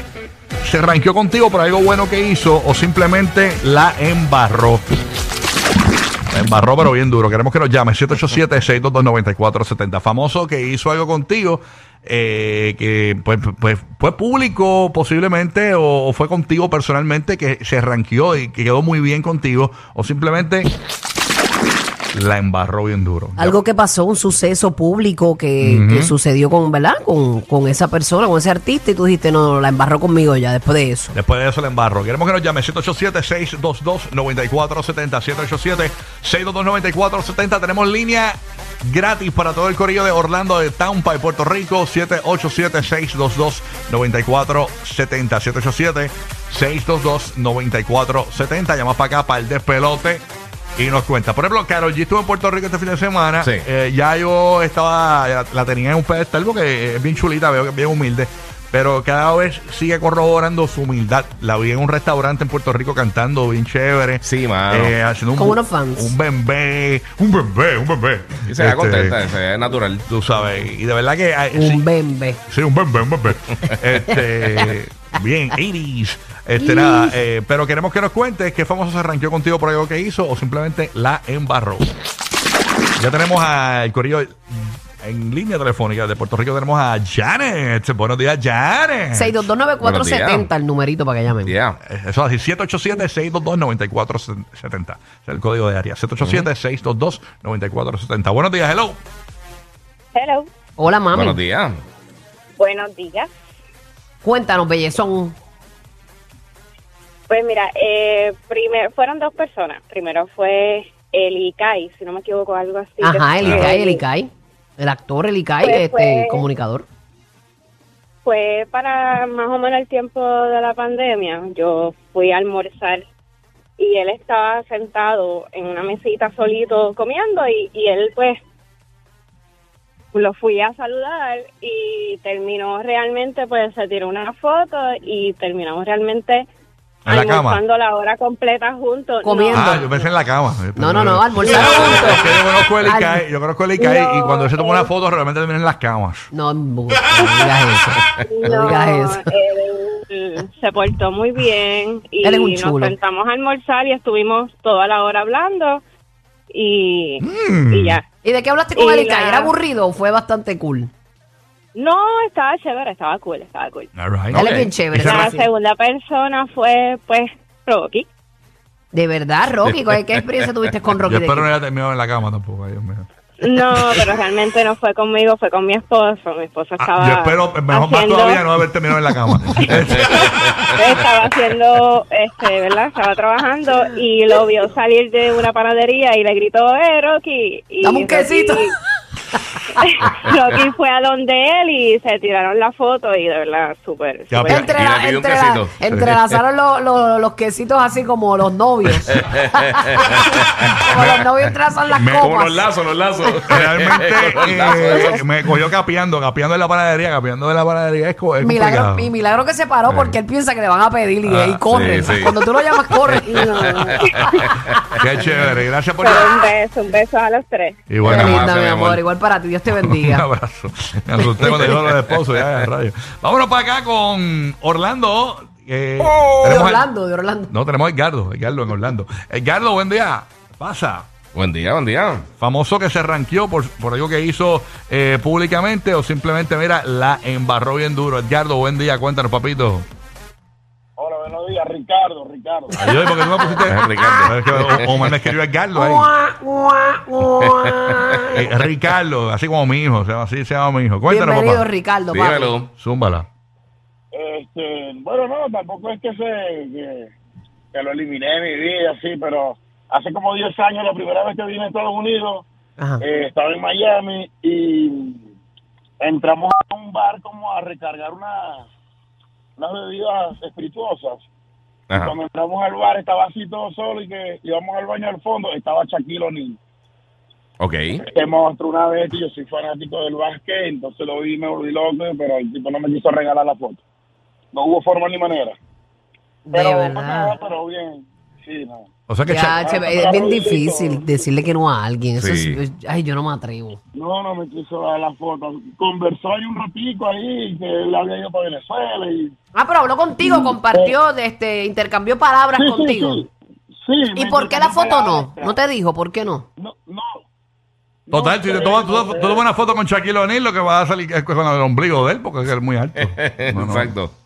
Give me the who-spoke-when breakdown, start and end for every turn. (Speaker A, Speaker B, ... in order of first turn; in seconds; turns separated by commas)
Speaker A: 0.6-4.9, Speaker A: 6.3-20.7, Speaker A: 22.1-23.6, Speaker B: 23.4-31.1, Speaker A: 25.6-26.1, Speaker A: 31.1-50.2, Speaker A: 50.8-69.2, Speaker C: 53.4-53.7, Speaker C: 64.2-64.9, Speaker B: 65.3-66.1, Speaker C: 68.5-70.1, Speaker A: 70.1-71.8, Speaker B: 71.5-72.4, Speaker A: 72.5-81.9, Speaker B: 76.6-77.1, Speaker A: 83.0-89.5, Speaker B: 89.1-91.5, Speaker C: 89.8-90.5, Speaker C: 91.5-91.8, Speaker A: 91.8-99.0, Speaker C: 96.2-96.5, Speaker D: 100.1-100.5, Speaker B: 100.8-101.4, Speaker C: 101.1-101.8, Speaker D: 102.6-103.3, Speaker B: 104.2-105.3, Speaker D: 107.3-114.0, Speaker B: 113.0-116.8, Speaker C: 113.4-113.7, Speaker D: 115.6-116.4, Speaker D: 118.2-123.0, Speaker D: 123.8-128.4, Speaker D: 130.1-136.4, Speaker A: 137.1-137.6, Speaker D: 137.1-140.1, Speaker B: 139.2-139.9, Speaker A: 139.5-146.3, Speaker B: 140.8-142.3, Speaker B: 142.8-143.2, Speaker D: 143.8-144.9, Speaker B: 146.3-149.2, Speaker D: 148.3-155.8, Speaker B: 152.2-152.9, Speaker D: 156.5-158.0, Speaker A: 157.2-158.0, Speaker B: 158.2-160.9, Speaker D: 158.8-159.5, Speaker D: 161.7-163.9, Speaker A: 163.9-165.3, Speaker C: 164.3-164.8, Speaker B: 164.3-165.5, Speaker D: 165.1-168.1, Speaker B: 168.9-171.5, Speaker A: 171.1-173.1, Speaker D: 173.4-178.4, Speaker A: 176.8-180.1, Speaker D: 180.8-188.7, Speaker B: 187.8-188.6, Speaker D: 190.0-194.6, Speaker A: 194.3-194.7, Speaker B: 194.4-199.2, Speaker C: 194.7-196.4, Speaker C: 199.4-200.4, Speaker B: 200.8-202.7, Speaker A: 201.9-202.3, Speaker C: 202.2-205.2, Speaker A: 203.4-209.1, Speaker B: 208.4-214.5, Speaker A: 211.2-211.6, Speaker C: 211.7-212.4, Speaker C: 213.1-214.0, Speaker A: 215.0-216.4, Speaker D: 216.0-217.8, Speaker A: 217.9-218.3, Speaker B: 218.0-220.2, Speaker C: 218.1-219.0, Speaker A: 219.7-226.8, Speaker C: 221.4-222.7, Speaker B: 226.4-227.5, Speaker A: 227.5-231.1, Speaker C: 231.3-232.2, Speaker A: 232.4-239.8, Speaker E: 241.0-242.8, Speaker A: 242.8-246.1, Speaker B: 242.8-244.3, Speaker C: 243.4-245.2, Speaker B: 245.7-248.4, Speaker C: 247.4-247.7, Speaker A: 248.3-251.7, Speaker B: 251.1-252.5, Speaker C: 252.1-252.7, Speaker A: 252.8-253.3, Speaker E: 254.1-257.1, Speaker E: 257.7-262.4, Speaker E: 263.0-265.2, Speaker E: 266.0-268.7, Speaker E: 269.6-271.2, Speaker C: 271.9-272.1, Speaker E: 271.9-276.6, Speaker C: 277.6-278.0, Speaker E: 278.1-283.8, Speaker E: 284.5-285.6, Speaker B: 286.4-287.4, Speaker E: 286.5-288.9, Speaker A: 289.1-289.6, Speaker B: 289.2-293.8, Speaker E: 289.5-291.1, Speaker C: 292.1-292.6, Speaker E: 293.9-299.3, Speaker B: 299.5-303.2, Speaker E: 300.2-300.9, Speaker E: 302.6-303.3, Speaker E: 303.8-305.6, Speaker B: 304.1-306.4, Speaker E: 306.6-307.2, Speaker E: 308.1-309.6, Speaker A: 308.1-313.9, Speaker C: 313.0-314.1